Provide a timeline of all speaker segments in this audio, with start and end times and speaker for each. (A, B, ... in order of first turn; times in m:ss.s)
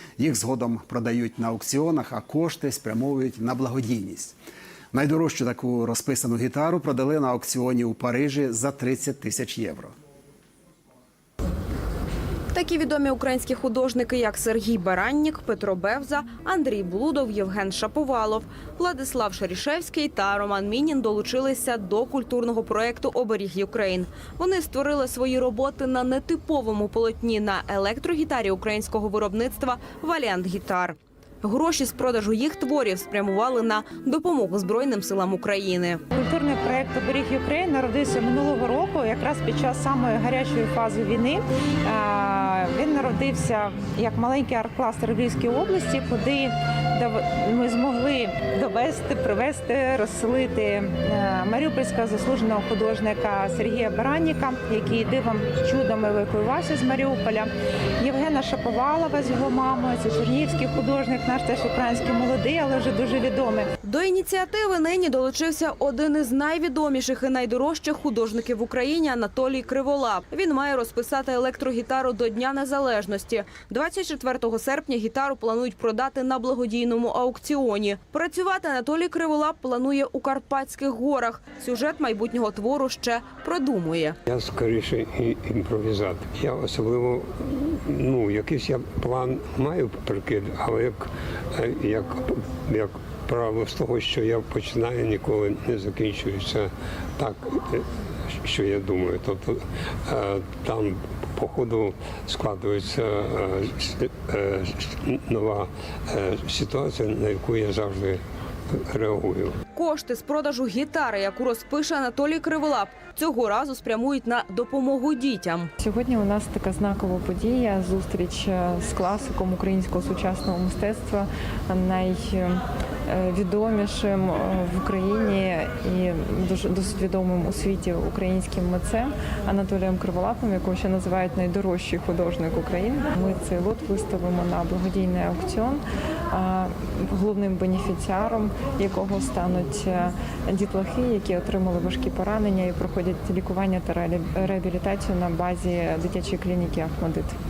0:00.2-0:04.4 A
0:04.9-0:09.9 A
0:12.5-0:36.0 B
0:36.1-1:03.7 C
1:03.8-1:24.2 B
1:24.3-1:49.6 D
1:49.8-1:55.7 B
1:55.8-2:27.3 E